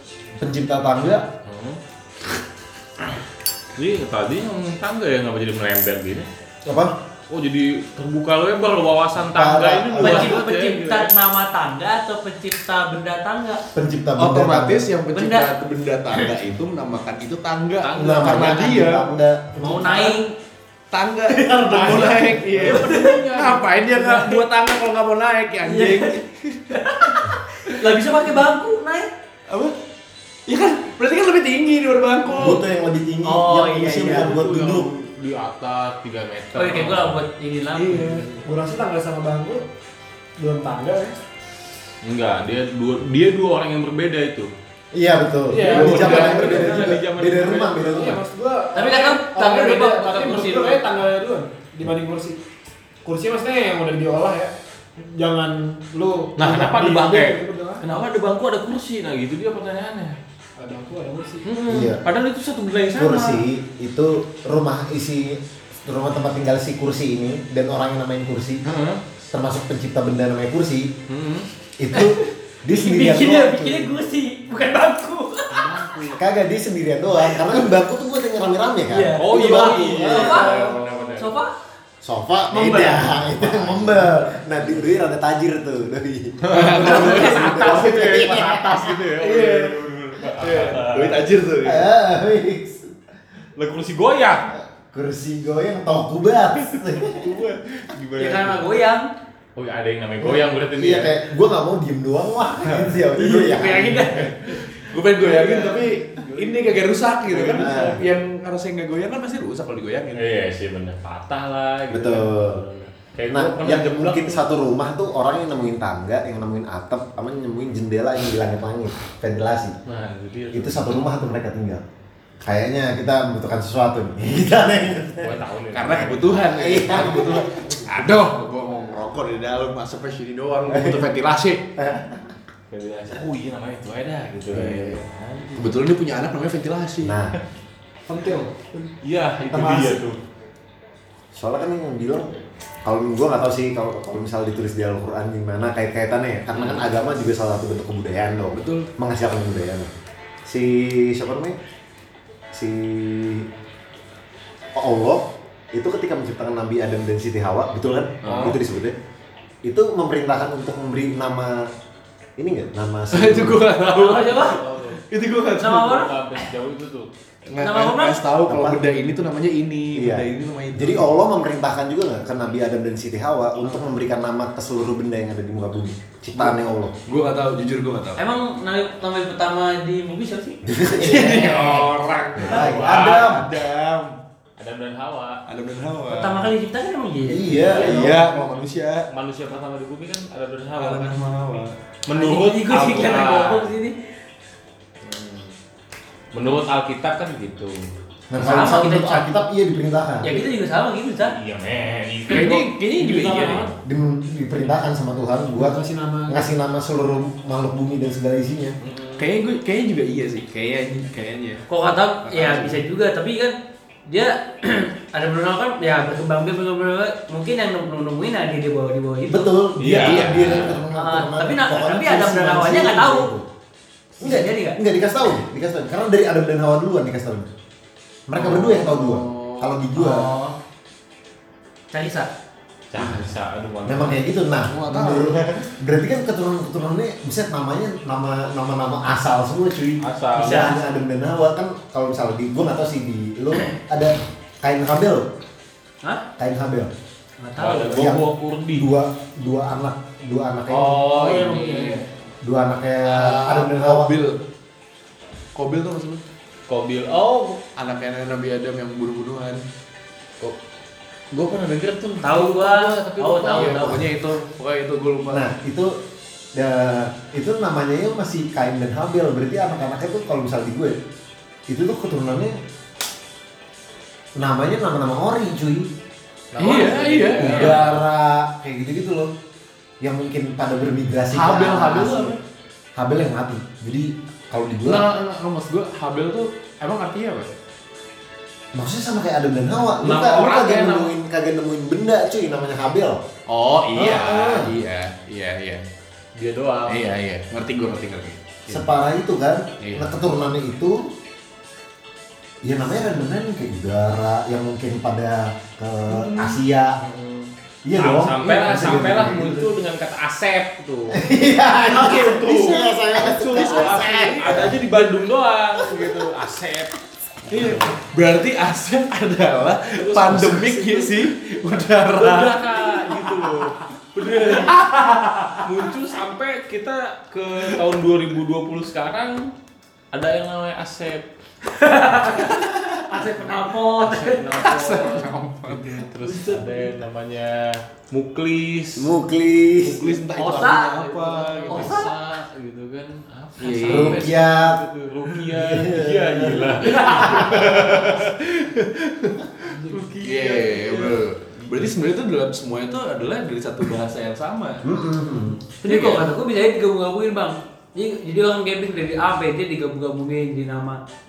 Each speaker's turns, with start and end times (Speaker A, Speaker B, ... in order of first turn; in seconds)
Speaker A: 0.4-1.3, 6.7-7.0, 9.3-10.2, 13.7-14.9, 18.0-19.8, 32.3-34.9, 44.9-48.2, 61.7-62.0, 62.9-68.7, 69.3-70.9, 71.8-74.0, 76.2-80.6, 82.0-89.0, 91.6-92.9, 94.5-97.4, 100.2-104.3, 107.3-108.0, 111.9-112.6, 113.3-119.8, 120.5-121.8, 122.4-128.1, 130.7-131.1, 131.8-132.3, 137.0-137.4, 139.5-140.0, 141.3-149.9, 150.5-151.6, 152.5-153.5, 154.8-159.0, 159.7-161.7, 162.4-163.7, 168.5-168.9, 169.9-176.9, 180.6-181.5, 182.4-183.5, 187.3-188.3, 198.3-200.3, 203.8-208.8, 219.3-223.5, 224.2-227.5, 228.3-230.3, 233.8-245.3, 246.4-246.9, 247.8-251.1, 252.4-254.2, 265.3-266.0, 266.5-271.0, 271.7-272.6, 274.4-275.9, 277.4-279.3, 280.0-282.4, 283.0-285.1, 288.7-293.2, 293.9-294.7, 298.7-301.0, 302.6-307.0, 307.9-309.7, 311.1-314.8, 339.0-340.2, 343.9-344.8, 345.5-348.0, 354.9-355.6
Speaker B: 1.4-1.8, 3.8-6.3, 7.3-11.1, 17.8-18.4, 21.7-23.7, 34.0-37.2, 42.0-44.5, 45.5-48.2, 56.4-60.2, 61.4-63.4, 68.7-69.0, 71.1-71.5, 75.5-76.2, 79.2-81.4, 82.6-84.1, 86.4-91.3, 93.6-94.5, 96.9-98.7, 99.6-101.2, 105.2-105.8, 107.3-108.0, 110.1-114.5, 119.9-120.9, 125.2-126.5, 132.7-135.8, 139.0-140.2, 158.2-158.6, 164.1-165.0, 165.8-167.1, 181.4-181.9, 182.4-183.4, 184.6-185.4, 187.6-188.5, 189.1-191.2, 192.1-193.7, 195.0-195.5, 196.3-197.8, 201.2-202.7, 208.8-209.3, 219.8-220.8, 232.9-234.2, 240.0-240.8, 247.6-248.9, 250.7-252.0, 256.7-257.6, 261.3-264.0, 276.5-278.1, 290.0-291.1, 296.4-297.1, 307.0-311.2, 311.9-312.8, 313.5-316.9, 317.5-318.0, 319.9-324.8, 325.6-329.5, 330.1-331.2, 334.0-339.1, 341.6-348.9, 349.9-351.2
Speaker C: 10.0-13.7, 15.1-15.5, 19.6-20.3, 22.7-23.3, 24.0-24.4, 25.6-26.2, 26.7-29.1, 33.2-34.4, 36.5-38.3, 48.7-50.8, 71.9-75.7, 78.9-81.5, 82.7-83.0, 98.2-99.1, 103.2-104.3, 163.8-164.6, 165.6-166.1, 167.6-168.2, 178.2-181.9, 186.1-187.7, 192.1-194.0, 198.4-199.3, 200.2-201.3, 211.7-213.6, 214.1-219.5, 220.9-223.3, 224.2-224.8, 230.0-230.5, 231.9-232.3, 240.4-240.8, 247.4-248.1, 262.2-264.0, 331.7-332.5, 333.1-334.6, 340.3-342.1, 355.8-361.0
Speaker D: 14.2-19.1, 20.9-27.1, 29.5-29.8, 30.5-32.6, 37.7-38.4, 45.5-47.0, 79.4-81.2, 86.5-88.0, 89.2-91.9, 104.5-110.2, 125.7-131.6, 134.5-135.0, 135.6-137.2, 148.5-148.9, 158.3-158.6, 163.1-164.5, 165.1-166.4, 167.5-171.2, 176.3-178.2, 180.9-184.2, 185.5-186.5, 187.5-189.1, 190.8-191.8, 202.3-203.7, 209.2-211.7, 212.2-212.8, 219.9-220.8, 228.4-229.4, 234.7-235.4, 253.1-254.4, 255.6-256.2, 257.7-259.6, 263.5-265.5, 276.6-277.9, 281.3-282.4, 284.8-287.5, 293.5-295.9, 296.9-298.5, 299.8-300.1, 306.1-306.5, 312.0-315.3, 317.5-323.3, 324.2-325.7, 332.4-332.8, 334.6-336.9, 339.8-342.1, 343.6-344.3, 347.7-348.2, 350.2-354.8, 355.9-356.3
Speaker E: 19.6-20.2, 21.3-22.3, 38.4-39.6, 40.4-41.2, 45.5-46.9, 47.8-52.4, 53.0-57.9, 60.6-61.5, 138.1-138.5, 203.0-203.7, 205.6-206.4, 251.1-252.0